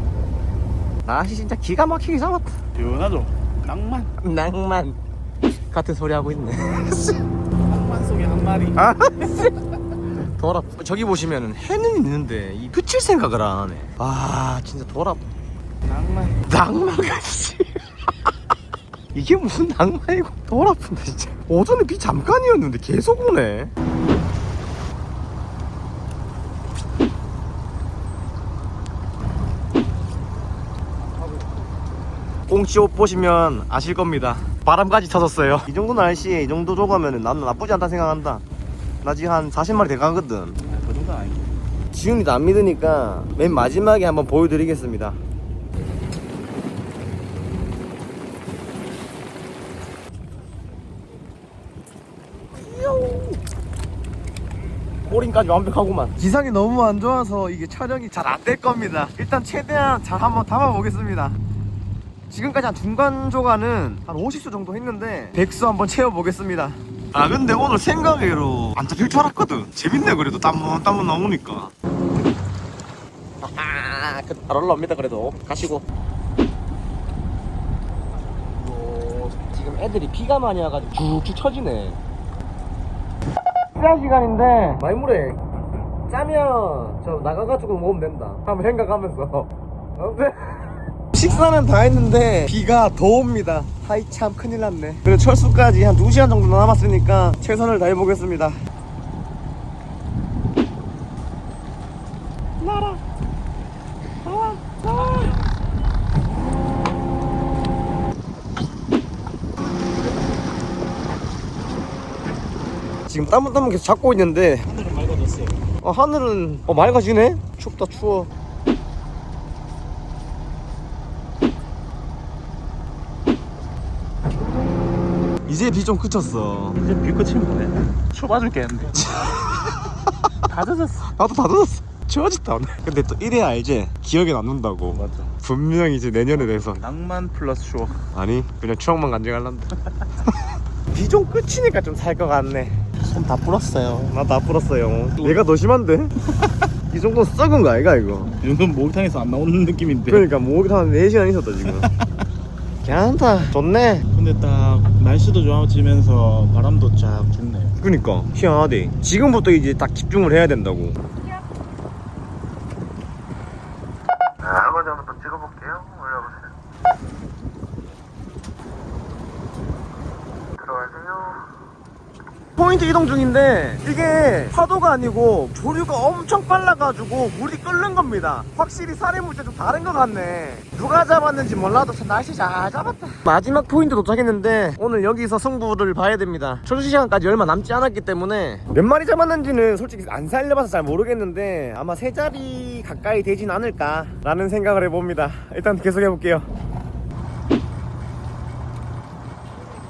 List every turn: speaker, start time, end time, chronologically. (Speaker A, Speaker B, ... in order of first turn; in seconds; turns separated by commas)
Speaker A: 1.1-2.5, Speaker B: 2.8-4.1, Speaker A: 4.2-5.0, Speaker A: 5.7-7.2, Speaker B: 7.7-8.9, Speaker A: 8.8-9.5, Speaker A: 10.4-15.2, Speaker B: 15.8-16.4, Speaker A: 16.5-17.8, Speaker A: 19.1-23.7, Speaker A: 32.5-38.4, Speaker A: 39.0-40.6, Speaker B: 40.6-41.5, Speaker A: 41.9-45.2, Speaker A: 52.5-53.4, Speaker A: 55.0-61.4, Speaker A: 62.3-71.7, Speaker A: 73.4-75.8, Speaker A: 78.7-82.0, Speaker A: 83.7-85.4, Speaker A: 86.1-98.6, Speaker A: 102.6-103.0, Speaker A: 104.2-105.3, Speaker A: 113.1-114.7, Speaker B: 114.7-115.6, Speaker A: 115.8-118.3, Speaker A: 125.5-126.8, Speaker B: 126.8-129.1, Speaker A: 129.2-129.6, Speaker B: 130.4-131.1, Speaker A: 131.1-136.8, Speaker B: 134.9-135.3, Speaker B: 136.3-138.0, Speaker A: 138.1-139.7, Speaker A: 140.9-142.8, Speaker B: 143.0-144.2, Speaker A: 144.1-146.1, Speaker B: 145.2-145.4, Speaker A: 146.9-148.3, Speaker B: 148.4-150.3, Speaker A: 150.1-151.9, Speaker A: 152.8-154.0, Speaker B: 154.1-157.8, Speaker A: 157.8-161.0, Speaker A: 164.4-166.3, Speaker A: 170.6-171.4, Speaker A: 172.6-196.5